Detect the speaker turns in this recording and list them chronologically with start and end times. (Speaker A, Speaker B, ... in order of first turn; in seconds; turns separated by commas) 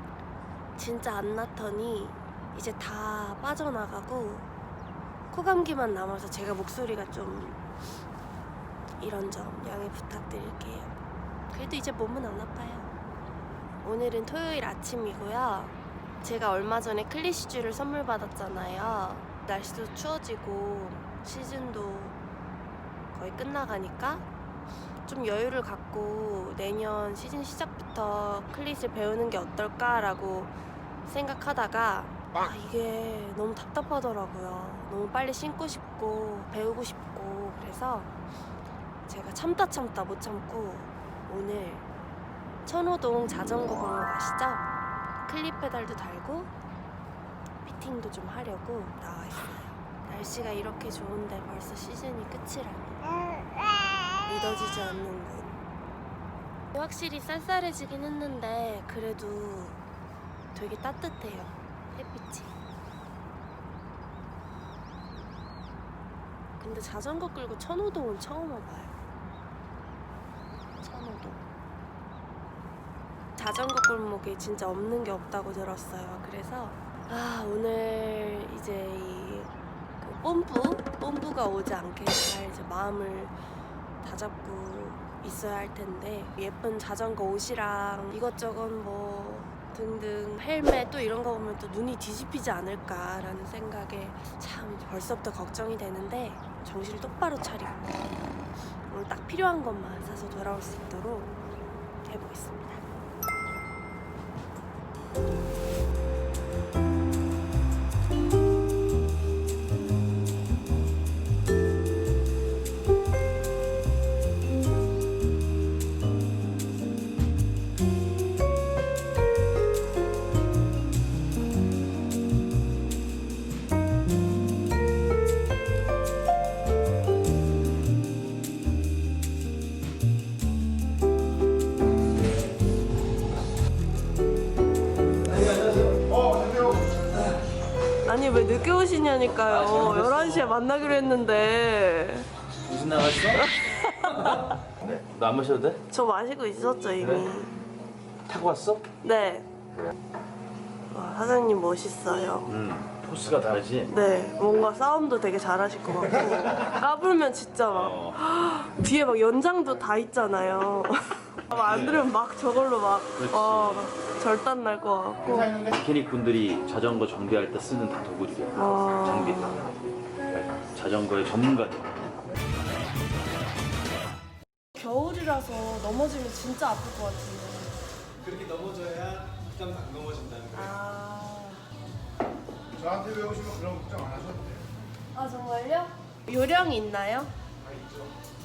Speaker A: 0.8-4.5, Speaker A: 5.3-7.6, Speaker A: 9.0-10.9, Speaker A: 11.5-12.9, Speaker A: 13.8-22.1, Speaker A: 23.1-24.3, Speaker A: 25.1-30.5, Speaker A: 31.1-38.1, Speaker A: 39.1-41.9, Speaker A: 42.6-44.6, Speaker A: 45.3-46.5, Speaker A: 47.6-53.0, Speaker A: 54.2-55.6, Speaker A: 56.7-59.8, Speaker A: 60.5-62.5, Speaker A: 66.6-68.9, Speaker A: 70.8-71.4, Speaker A: 73.4-83.3, Speaker A: 84.0-98.0, Speaker A: 98.9-101.3, Speaker A: 102.0-102.8, Speaker B: 135.3-136.0, Speaker C: 136.1-136.9, Speaker A: 138.0-142.3, Speaker B: 139.4-140.6, Speaker B: 142.6-143.5, Speaker A: 143.3-144.6, Speaker B: 144.1-145.8, Speaker A: 145.9-147.5, Speaker B: 147.0-147.3, Speaker B: 148.3-148.9, Speaker A: 149.0-149.5, Speaker A: 150.9-152.5, Speaker B: 152.5-153.9, Speaker C: 153.3-153.6, Speaker A: 153.9-165.5, Speaker C: 156.3-156.7, Speaker B: 157.7-158.2, Speaker B: 161.5-162.1, Speaker B: 163.2-163.9, Speaker C: 165.2-165.8, Speaker B: 165.4-169.6, Speaker A: 168.5-169.5, Speaker B: 170.3-171.9, Speaker A: 174.8-177.8, Speaker C: 178.2-180.8, Speaker A: 180.5-181.7, Speaker C: 182.7-184.7, Speaker A: 185.1-187.3, Speaker C: 187.6-188.2